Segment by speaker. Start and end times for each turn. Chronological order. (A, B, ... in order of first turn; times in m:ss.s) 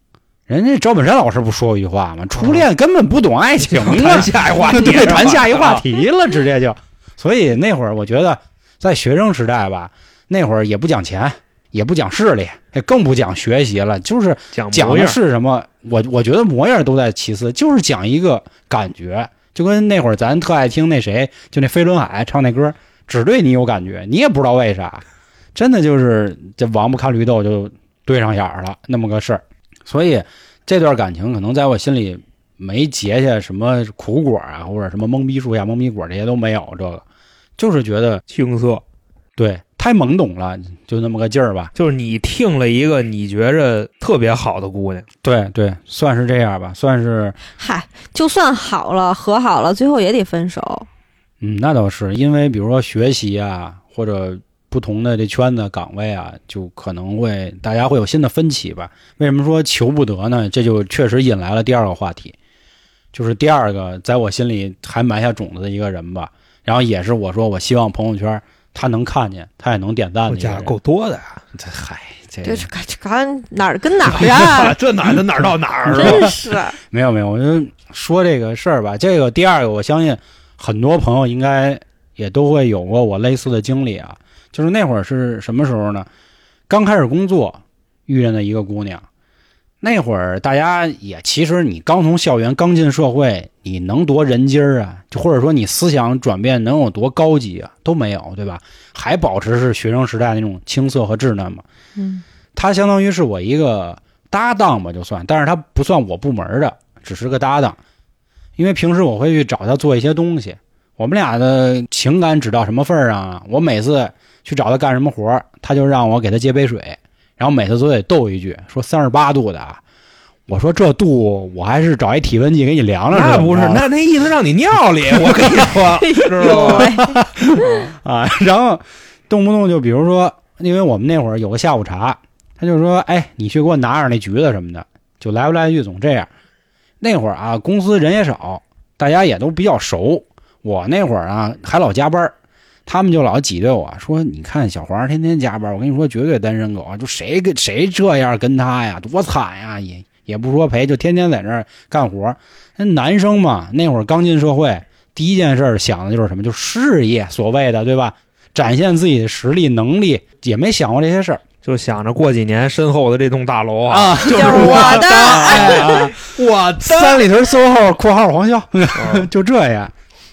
0:00.5-0:25.0 A
0:02.4-0:02.7 B
0:03.6-0:05.8 B
0:14.5-0:15.2 B
0:25.6-0:37.0 A
0:37.6-0:38.2 A
0:38.3-0:38.8 B
0:39.4-0:41.7 A
0:41.8-0:45.1 B
0:45.2-0:47.4 A
0:47.6-0:50.9 C
0:51.4-1:02.4 A
1:03.1-1:10.7 A
1:10.3-1:11.4 B
1:11.6-1:12.7 A
1:12.4-1:14.8 C
1:14.1-1:16.4 B
1:15.9-1:16.3 A
1:15.9-1:16.8 C
1:16.8-1:26.1 A
1:26.7-1:29.0 A
1:29.8-1:41.6 A
1:42.0-1:42.2 C
1:42.6-1:47.8 A
1:48.6-1:59.8 A
2:00.5-2:03.9 A
2:03.1-2:07.0 B
2:05.4-2:05.9 A
2:06.0-2:07.1 C
2:06.4-2:16.3 A
2:17.0-2:22.3 A
2:22.9-2:41.4 A
2:41.6-2:47.3 B
2:43.9-2:46.2 A
2:44.3-2:46.1 C
2:46.8-2:49.9 A
2:48.9-2:49.3 B